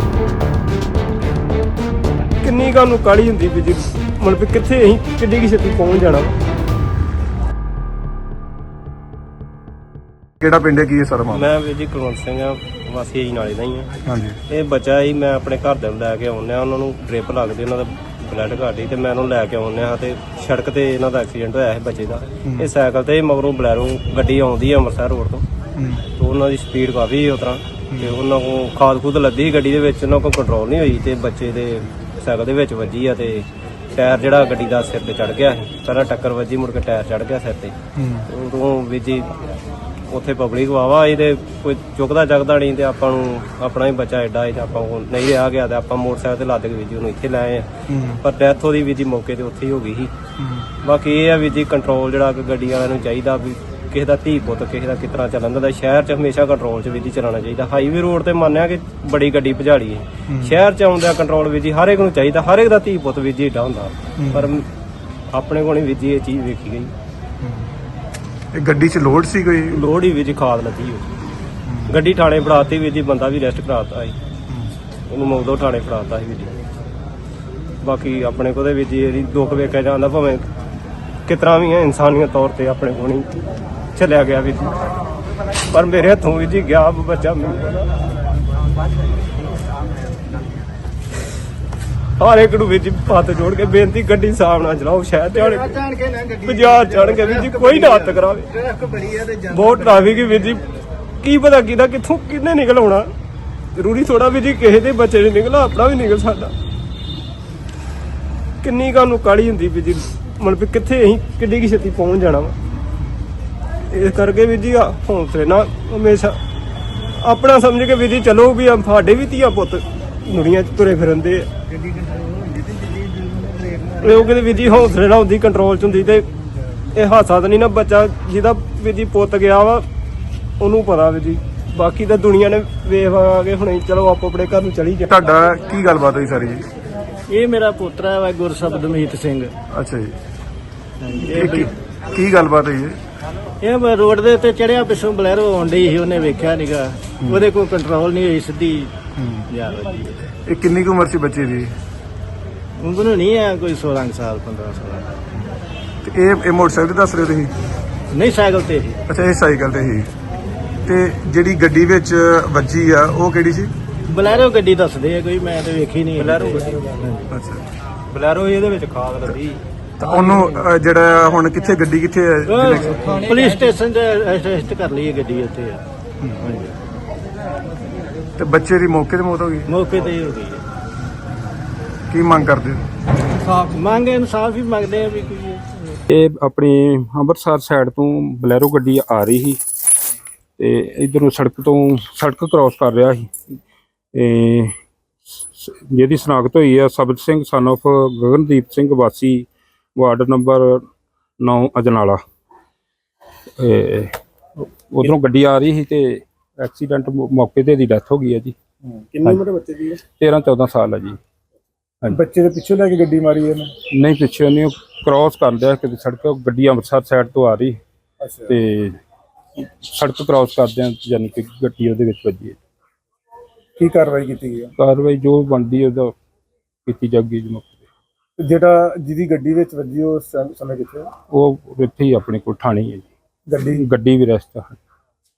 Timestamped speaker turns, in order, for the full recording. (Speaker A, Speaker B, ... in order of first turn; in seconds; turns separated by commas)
Speaker A: 2.4-6.3, Speaker B: 10.4-11.5, Speaker A: 11.3-13.9, Speaker B: 14.1-14.4, Speaker A: 14.5-25.4, Speaker B: 25.8-26.0, Speaker A: 26.2-37.8, Speaker B: 27.9-28.2, Speaker B: 38.0-38.3, Speaker A: 38.3-39.3, Speaker A: 40.1-50.1, Speaker B: 47.9-48.2, Speaker B: 50.4-50.7, Speaker A: 50.8-64.7, Speaker B: 60.3-60.6, Speaker B: 64.2-64.5, Speaker A: 65.3-66.9, Speaker B: 68.5-69.8, Speaker A: 69.7-71.1, Speaker B: 71.7-72.0, Speaker A: 71.9-74.2, Speaker A: 75.1-76.5, Speaker A: 77.8-80.5, Speaker A: 81.3-83.3, Speaker A: 84.0-84.8, Speaker A: 85.7-87.8, Speaker A: 92.2-95.8, Speaker C: 95.3-100.2, Speaker A: 96.4-98.5, Speaker A: 99.4-100.7, Speaker A: 101.2-103.1, Speaker A: 103.8-106.5, Speaker A: 108.6-112.5, Speaker A: 113.9-116.4, Speaker A: 117.2-121.5, Speaker A: 123.9-126.3, Speaker A: 126.9-129.8, Speaker A: 130.6-135.1, Speaker B: 135.1-136.7, Speaker C: 137.3-139.5, Speaker B: 139.7-140.2, Speaker C: 141.0-141.7, Speaker B: 141.2-143.0, Speaker C: 143.6-148.9, Speaker B: 149.2-149.4, Speaker C: 149.5-150.2, Speaker B: 150.5-151.7, Speaker C: 152.8-155.1, Speaker B: 156.0-157.5, Speaker C: 158.1-159.0, Speaker B: 159.1-160.1, Speaker B: 160.9-163.7, Speaker C: 164.1-167.2, Speaker A: 166.2-167.0, Speaker B: 167.3-167.7, Speaker A: 168.1-169.6, Speaker B: 170.0-173.2, Speaker C: 170.1-170.4, Speaker C: 172.5-175.8, Speaker C: 176.4-176.8, Speaker B: 178.4-179.7, Speaker C: 179.7-180.6, Speaker B: 182.1-182.8, Speaker C: 183.5-185.9, Speaker D: 186.1-189.6, Speaker D: 190.6-193.3, Speaker D: 194.1-194.7, Speaker D: 195.3-200.8, Speaker D: 201.4-202.2, Speaker D: 203.6-208.6, Speaker B: 208.8-210.0, Speaker D: 210.1-211.2, Speaker B: 212.1-213.7, Speaker D: 213.9-217.8, Speaker B: 218.2-218.6, Speaker D: 218.5-219.0, Speaker D: 219.6-222.6, Speaker B: 223.8-224.7, Speaker D: 224.8-226.1, Speaker D: 226.9-227.8, Speaker B: 228.4-231.1, Speaker D: 231.3-233.1, Speaker B: 233.5-233.8, Speaker D: 233.7-234.8